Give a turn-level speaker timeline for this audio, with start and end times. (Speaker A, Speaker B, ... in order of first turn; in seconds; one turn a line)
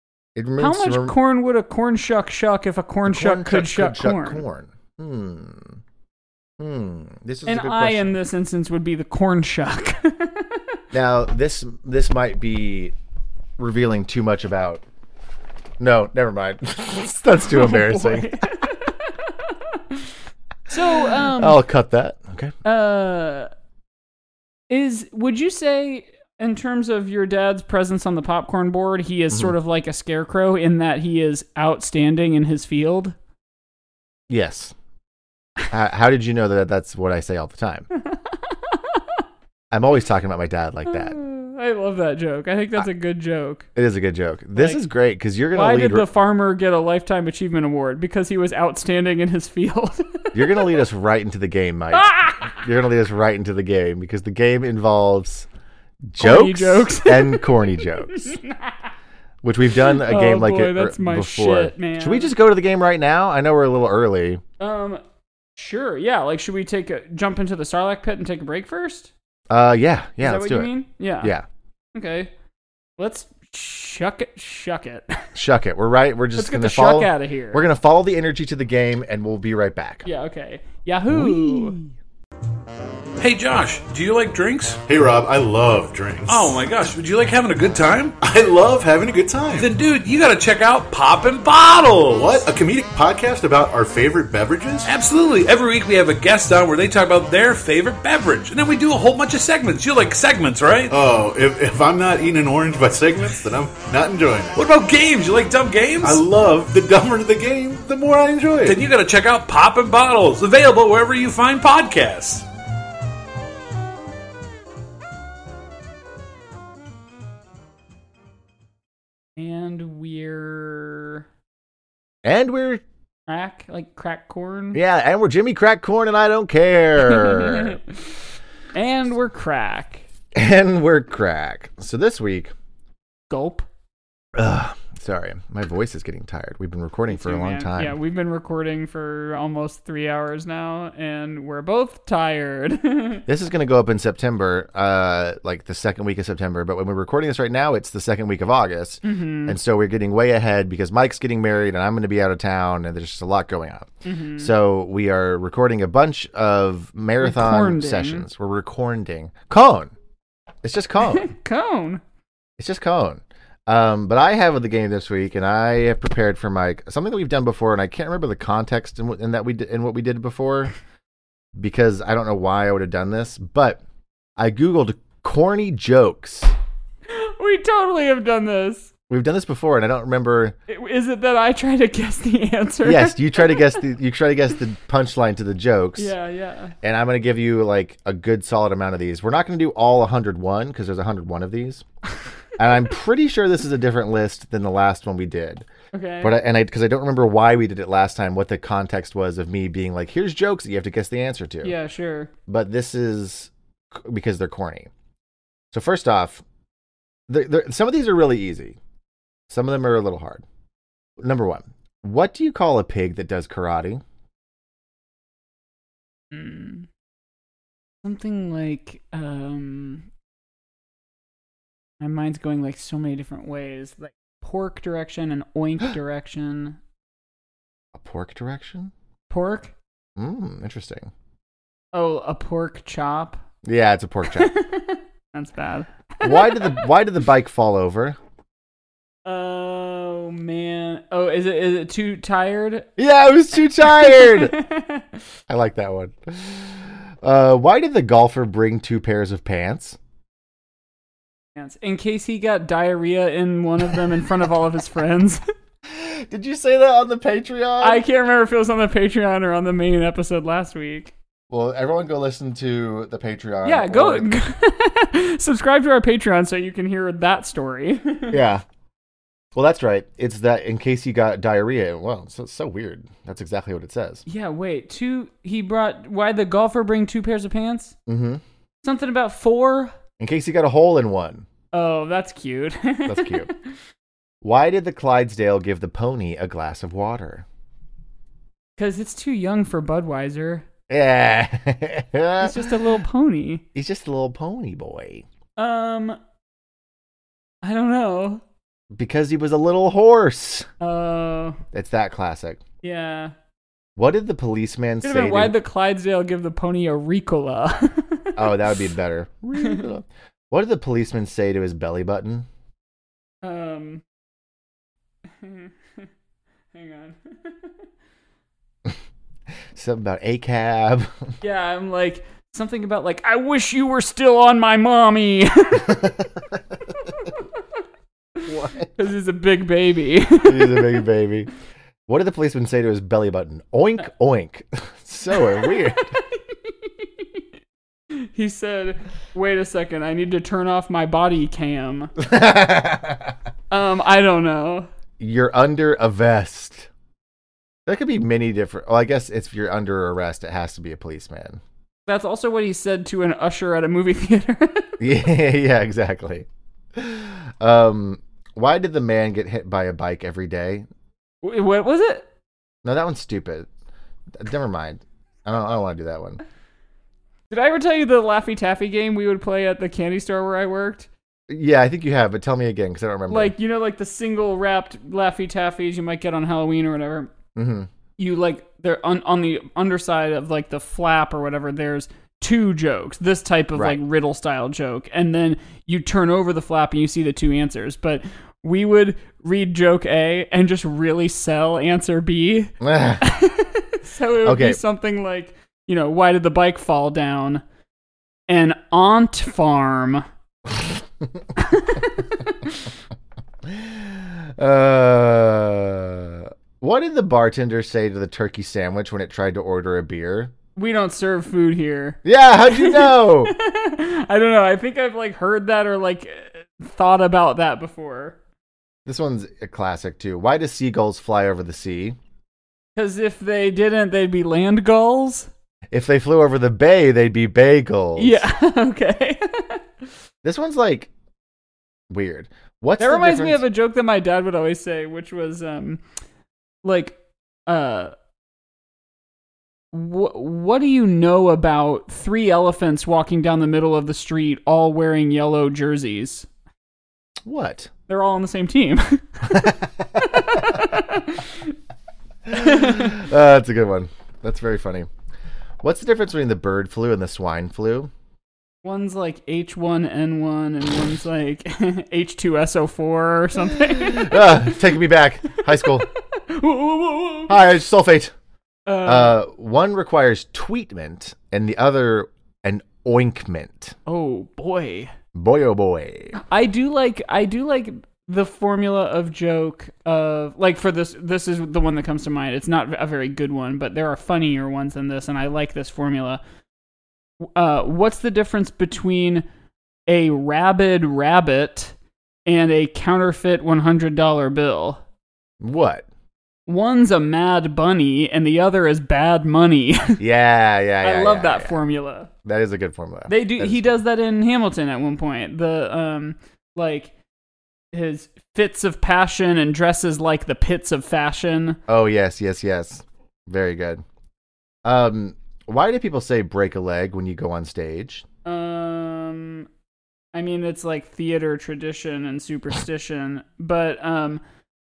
Speaker A: 0.3-1.1
Speaker B: 0.6-4.4
Speaker A: 3.0-5.8
Speaker A: 6.6-8.2
Speaker B: 7.5-10.8
Speaker A: 10.9-12.9
Speaker A: 13.6-14.8
Speaker A: 15.8-18.3
Speaker B: 17.4-20.1
Speaker B: 20.7-21.6
Speaker A: 20.7-22.6
Speaker B: 22.6-23.5
Speaker B: 24.7-33.1
Speaker A: 34.3-34.7
Speaker A: 35.7-37.9
Speaker A: 39.7-41.2
Speaker B: 40.9-43.6
Speaker A: 43.8-46.1
Speaker B: 44.5-44.8
Speaker B: 45.5-50.6
Speaker A: 50.3-55.5
Speaker B: 51.9-52.6
Speaker A: 56.1-58.4
Speaker B: 56.2-58.9
Speaker A: 59.4-64.4
Speaker B: 59.9-62.3
Speaker B: 64.6-65.0
Speaker B: 65.5-69.1
Speaker A: 69.5-71.5
Speaker B: 70.2-71.3
Speaker B: 71.9-72.3
Speaker B: 73.0-75.2
Speaker A: 75.3-80.0
Speaker B: 76.3-77.6
Speaker B: 80.0-81.8
Speaker A: 81.1-81.8
Speaker C: 83.2-84.8
Speaker D: 84.9-86.6
Speaker C: 86.3-88.2
Speaker D: 88.2-89.7
Speaker C: 89.5-92.4
Speaker D: 92.1-94.9
Speaker C: 94.8-100.9
Speaker D: 100.9-104.6
Speaker C: 104.5-106.2
Speaker D: 106.0-108.8
Speaker C: 108.6-112.5
Speaker B: 119.4-121.2
Speaker A: 122.2-122.8
Speaker B: 123.3-124.8
Speaker A: 124.7-127.8
Speaker B: 127.0-127.8
Speaker B: 128.7-130.1
Speaker A: 130.3-132.5
Speaker B: 133.3-133.7
Speaker A: 134.3-138.0
Speaker B: 137.1-143.2
Speaker A: 143.3-159.9
Speaker B: 149.0-149.6
Speaker B: 154.0-154.5
Speaker B: 157.2-158.2
Speaker A: 160.6-161.3
Speaker B: 161.1-162.0
Speaker A: 162.6-170.7
Speaker A: 171.6-173.8
Speaker A: 174.4-176.5
Speaker B: 177.1-178.9
Speaker A: 179.1-180.6
Speaker B: 180.7-183.8
Speaker A: 182.8-186.1
Speaker B: 185.9-186.7
Speaker A: 186.8-191.8
Speaker A: 192.6-195.7
Speaker B: 195.9-196.3
Speaker A: 196.2-201.7
Speaker B: 201.6-202.3
Speaker A: 202.5-204.9
Speaker A: 205.7-206.4
Speaker A: 207.3-208.8
Speaker A: 209.5-210.4
Speaker A: 211.2-214.0
Speaker B: 216.3-216.9
Speaker B: 218.0-220.1
Speaker B: 222.0-226.8
Speaker A: 227.9-228.9
Speaker B: 229.3-229.7
Speaker A: 230.2-231.1
Speaker B: 231.9-233.4
Speaker A: 233.6-234.5
Speaker B: 234.3-236.9
Speaker A: 236.2-238.2
Speaker B: 239.2-242.9
Speaker A: 243.0-244.6
Speaker B: 243.8-245.1
Speaker A: 245.5-250.0
Speaker B: 251.6-255.4
Speaker A: 255.8-258.0
Speaker B: 257.8-261.1
Speaker A: 261.5-264.3
Speaker B: 263.6-268.4
Speaker A: 268.3-268.6
Speaker A: 269.5-274.2
Speaker B: 274.2-277.9
Speaker A: 278.1-278.4
Speaker B: 278.8-279.9
Speaker A: 280.2-281.4
Speaker B: 281.7-283.5
Speaker A: 283.0-283.5
Speaker A: 284.4-287.4
Speaker B: 288.8-290.6
Speaker A: 290.9-292.7
Speaker B: 292.4-293.6
Speaker A: 293.7-295.2
Speaker B: 295.6-296.2
Speaker B: 297.6-298.4
Speaker A: 298.9-300.7
Speaker B: 300.8-301.6
Speaker A: 301.7-302.6
Speaker B: 302.8-303.3
Speaker A: 303.9-305.5
Speaker B: 305.0-308.5
Speaker A: 308.4-312.5
Speaker B: 309.6-309.8
Speaker B: 313.4-314.0
Speaker B: 315.4-316.1
Speaker B: 316.7-317.7
Speaker A: 319.7-321.3
Speaker B: 321.4-326.1
Speaker A: 325.8-326.6
Speaker A: 328.4-328.9
Speaker B: 328.5-331.0
Speaker A: 330.4-331.5
Speaker A: 332.1-336.1
Speaker B: 335.4-337.4
Speaker B: 338.1-342.1
Speaker A: 342.2-343.3
Speaker B: 343.7-344.9
Speaker A: 345.2-346.9
Speaker A: 347.9-351.6
Speaker B: 352.1-355.0
Speaker A: 355.0-360.9
Speaker B: 361.4-362.3
Speaker A: 362.8-363.7
Speaker A: 364.3-366.4
Speaker B: 367.5-371.1
Speaker A: 371.5-373.5
Speaker B: 373.3-377.3
Speaker A: 377.5-377.9
Speaker B: 378.2-397.6
Speaker A: 383.7-384.0
Speaker A: 392.8-393.3
Speaker A: 394.4-394.8
Speaker B: 398.5-400.2
Speaker B: 401.6-402.9
Speaker A: 403.6-410.5
Speaker B: 410.8-418.4
Speaker A: 412.2-413.5
Speaker A: 419.1-422.2
Speaker B: 422.9-425.5
Speaker A: 425.9-428.4
Speaker B: 428.2-429.8
Speaker A: 430.4-431.1
Speaker A: 432.1-433.6
Speaker B: 433.0-436.0
Speaker B: 436.8-438.1
Speaker B: 439.9-446.5
Speaker A: 447.4-447.9
Speaker B: 448.1-451.7
Speaker A: 449.5-450.6
Speaker A: 452.5-455.1
Speaker B: 452.5-453.1
Speaker A: 455.8-458.1
Speaker B: 458.8-464.7
Speaker A: 463.7-466.1
Speaker B: 465.8-467.6
Speaker A: 467.5-468.3
Speaker B: 468.9-469.4
Speaker A: 469.0-473.9
Speaker B: 474.1-475.1
Speaker A: 475.3-476.4
Speaker B: 476.4-486.4
Speaker B: 487.4-489.4
Speaker B: 490.1-491.9
Speaker B: 492.4-495.0
Speaker A: 495.6-496.1
Speaker B: 496.7-500.2
Speaker A: 500.2-501.8
Speaker B: 501.0-502.3
Speaker A: 502.4-503.9
Speaker B: 503.3-507.1
Speaker B: 507.9-511.8
Speaker A: 511.9-514.0
Speaker A: 514.8-518.2
Speaker B: 518.4-519.7
Speaker B: 520.3-524.4